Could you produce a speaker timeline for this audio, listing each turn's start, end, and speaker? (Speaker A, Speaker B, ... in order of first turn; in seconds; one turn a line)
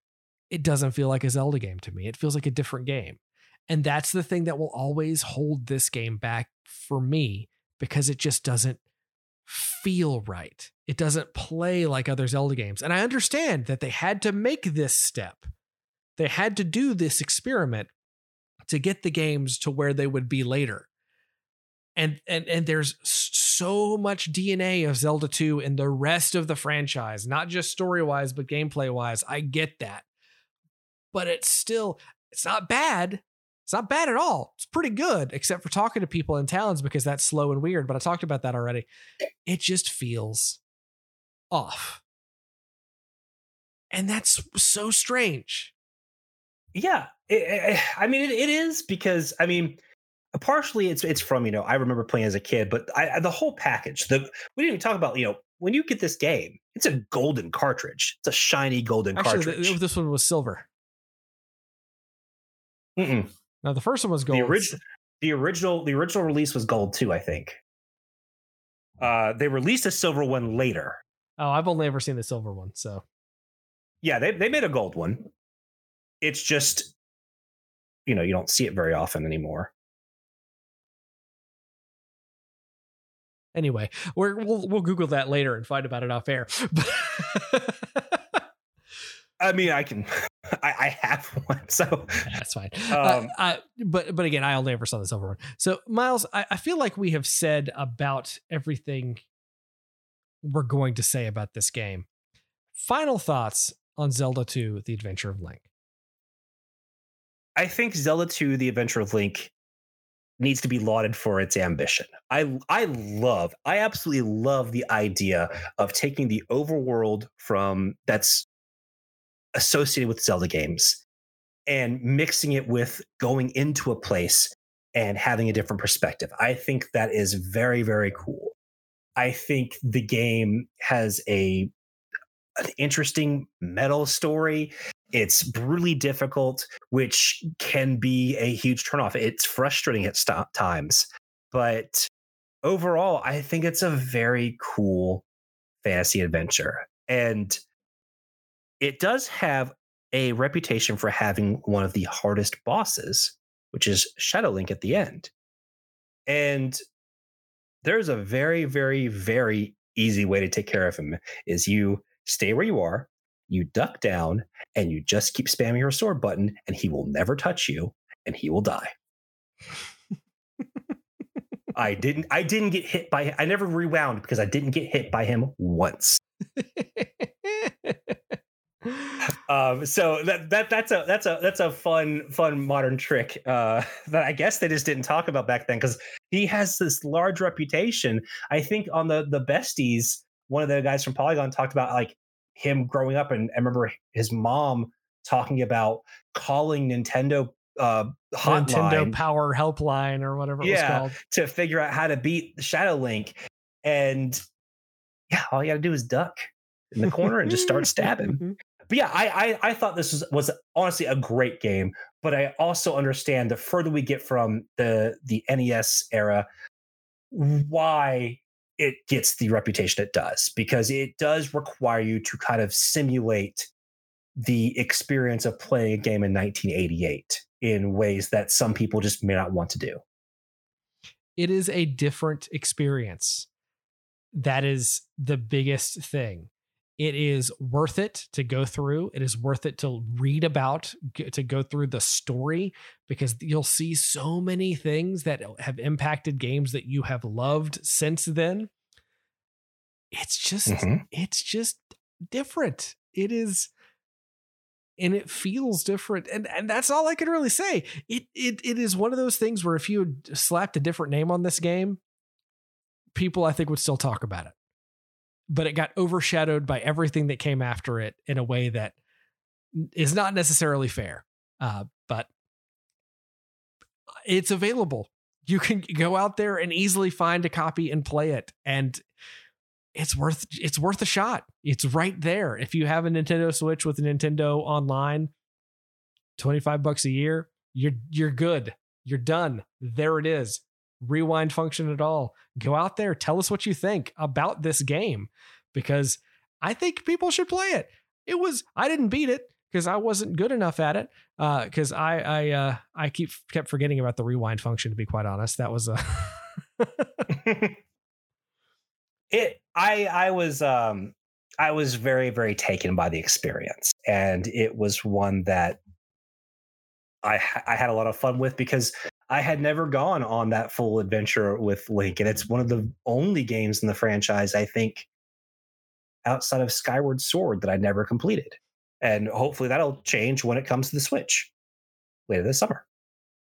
Speaker A: 0.5-8.8
Speaker A: 9.5-15.5
Speaker A: 16.2-17.9
Speaker A: 18.7-20.9
Speaker A: 22.0-30.1
Speaker A: 31.1-38.9
Speaker A: 39.5-40.6
Speaker A: 41.5-42.0
Speaker A: 43.9-45.7
Speaker B: 46.8-49.8
Speaker B: 50.4-59.8
Speaker A: 59.1-60.7
Speaker B: 63.0-63.3
Speaker A: 63.6-64.8
Speaker B: 64.3-67.6
Speaker B: 69.0-71.0
Speaker A: 71.4-73.0
Speaker B: 74.0-75.3
Speaker B: 76.2-76.9
Speaker B: 78.1-79.7
Speaker A: 83.5-88.4
Speaker B: 89.4-92.3
Speaker A: 92.3-99.2
Speaker B: 92.9-93.3
Speaker A: 100.4-102.1
Speaker A: 102.7-105.7
Speaker B: 107.6-109.5
Speaker B: 110.4-118.5
Speaker B: 119.6-121.0
Speaker B: 121.7-128.6
Speaker B: 129.2-131.7
Speaker B: 132.6-142.1
Speaker B: 142.7-145.2
Speaker B: 145.8-147.6
Speaker B: 148.8-155.3
Speaker B: 156.3-156.8
Speaker B: 157.8-168.9
Speaker B: 171.7-176.2
Speaker A: 176.6-178.2
Speaker A: 178.8-179.3
Speaker B: 179.2-199.2
Speaker A: 198.4-201.2
Speaker B: 200.6-204.4
Speaker B: 205.3-216.5
Speaker A: 207.6-208.5
Speaker B: 217.3-223.7
Speaker B: 224.4-230.0
Speaker A: 231.4-233.5
Speaker A: 234.3-248.7
Speaker A: 250.1-253.7
Speaker B: 250.7-251.0
Speaker A: 255.0-262.0
Speaker A: 263.2-264.6
Speaker A: 265.5-268.9
Speaker A: 269.8-272.3
Speaker A: 274.3-279.1
Speaker A: 280.0-285.3
Speaker A: 286.4-307.4
Speaker B: 307.3-307.8
Speaker B: 309.3-315.8
Speaker B: 317.2-325.1
Speaker B: 326.2-331.5
Speaker B: 332.3-332.8